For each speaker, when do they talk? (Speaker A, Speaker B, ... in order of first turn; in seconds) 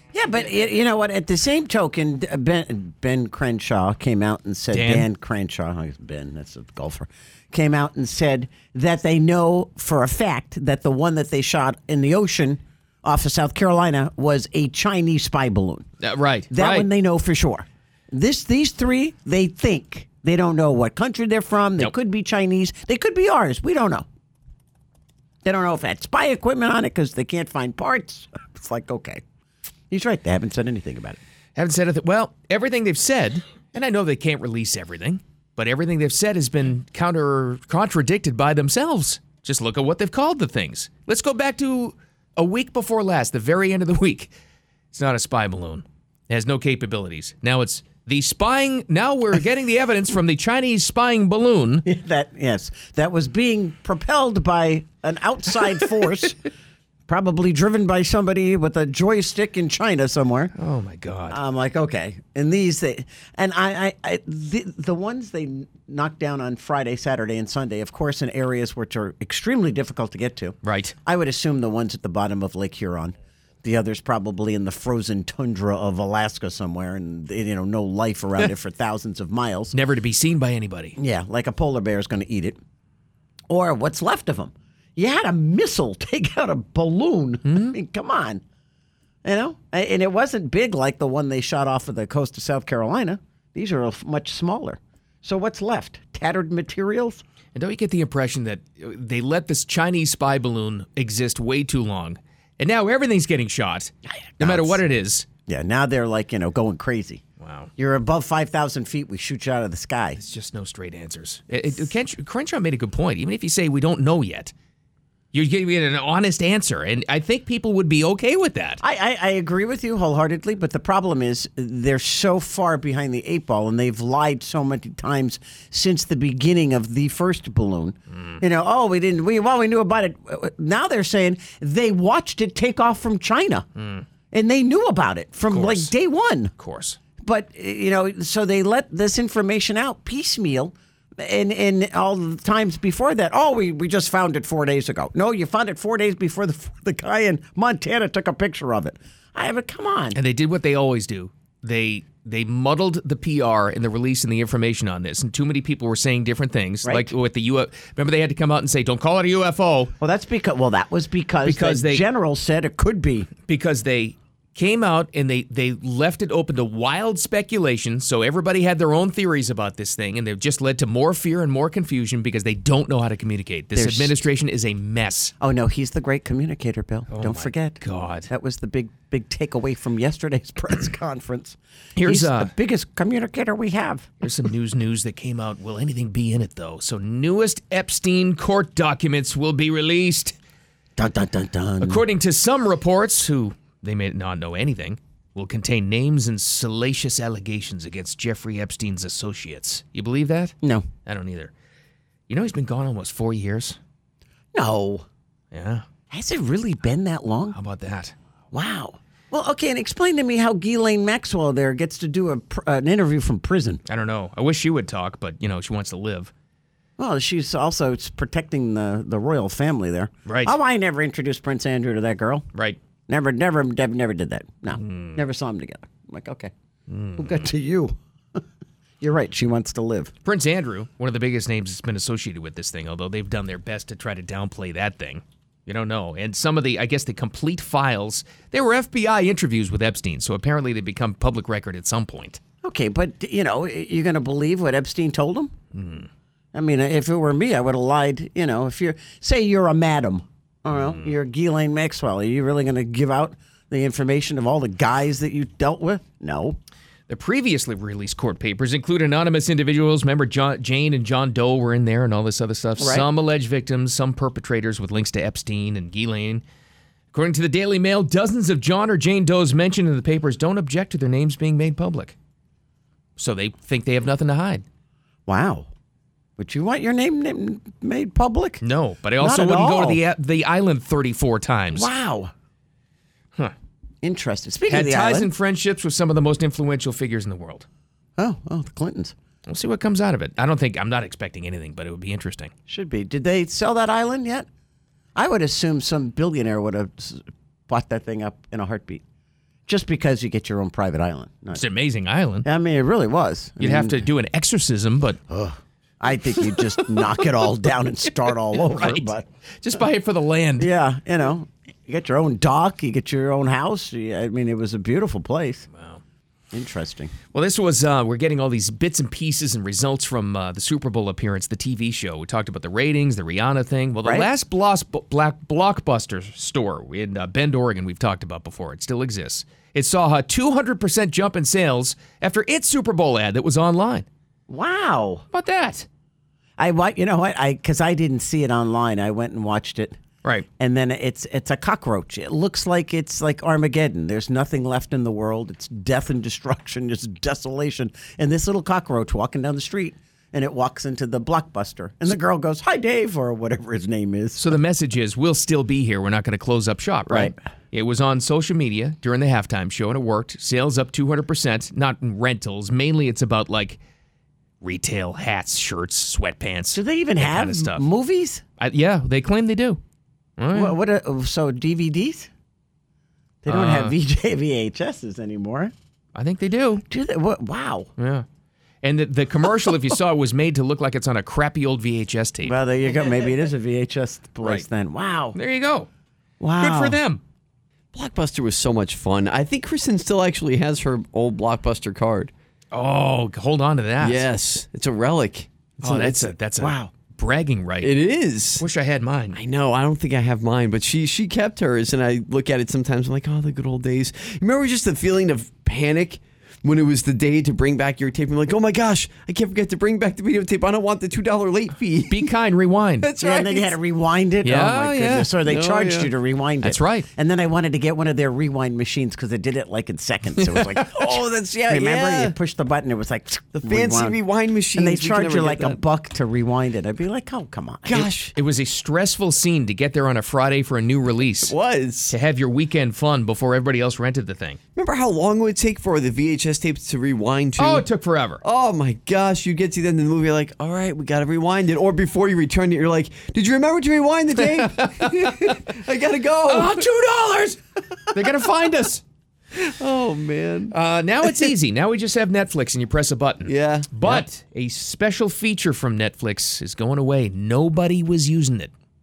Speaker A: 0.1-15.9, 16.5-24.1, 25.4-29.2, 29.9-31.2, 51.9-56.4, 57.1-60.5, 61.3-79.8, 81.0-82.6, 83.5-88.4, 89.2-97.2, 104.1-104.8, 105.5-107.2, 107.8-110.2, 118.8-133.7, 134.3-136.5, 137.2-150.2, 156.8-157.1, 160.0-163.3, 173.8-174.2, 175.4-184.1, 191.0-192.0, 200.6-200.9, 204.5-205.1, 206.1-207.6, 208.5-213.8, 217.0-222.5, 223.1-226.5, 227.2-228.4, 229.0-230.1, 242.6-245.5, 246.5-256.6, 262.8-263.1, 275.3-275.7, 276.4-278.6, 279.2-280.0, 281.7-282.3, 284.0-285.3, 288.2-289.1, 292.7-294.5, 295.2-299.0, 299.7-301.6, 302.4-304.0, 305.3-309.3, 310.6-315.7, 316.5-317.1, 334.5-335.2, 336.6-340.0, 340.6-354.6, 357.1-357.3, 366.7-368.4, 370.5-372.3, 373.4-375.7, 376.9-377.9, 382.4-385.4, 386.4-387.0, 396.6-396.9, 413.2-424.2, 424.7-428.1
Speaker B: 4.7-5.1, 16.0-16.9, 31.6-44.3, 44.9-51.9, 60.5-61.4, 70.6-70.9, 79.7-81.0, 87.5-87.8, 97.5-105.3, 107.4-107.7, 110.2-114.5, 115.3-118.8, 128.1-128.4, 133.8-134.1, 135.5-135.9, 136.6-137.0, 150.1-159.9, 161.4-162.1, 163.5-175.3, 177.1-178.3, 182.0-182.5, 184.2-190.4, 191.8-200.6, 201.1-201.5, 202.3-203.8, 205.5-205.9, 207.5-208.1, 213.9-216.3, 220.3-220.6, 224.7-225.2, 226.9-227.5, 230.2-242.4, 245.7-246.1, 250.7-251.1, 257.1-266.4, 267.1-272.1, 273.2-274.6, 278.6-281.9, 284.7-287.7, 289.5-292.5, 301.5-302.5, 303.6-305.2, 308.7-310.7, 315.7-316.0, 317.3-334.1, 335.3-335.9, 354.4-363.8, 364.6-367.9, 368.6-369.8, 370.4-370.8, 373.5-373.9, 376.1-376.8, 378.0-378.3, 378.8-382.6, 385.3-385.9, 386.6-387.2, 392.7-394.3, 395.8-397.9, 398.6-399.4, 412.1-413.1, 414.4-415.3, 416.6-417.1, 428.3-431.5, 432.1-434.6, 437.6-438.4, 444.4-445.6, 446.5-447.6, 448.1-449.0, 450.7-458.7
Speaker C: 387.9-392.3, 394.0-396.3, 397.8-398.6, 399.3-412.3, 413.0-413.7, 415.4-416.1, 421.0-422.3, 423.6-425.8, 427.9-428.3, 431.4-432.1, 434.8-437.9, 438.4-446.8, 449.6-450.7, 453.5-454.2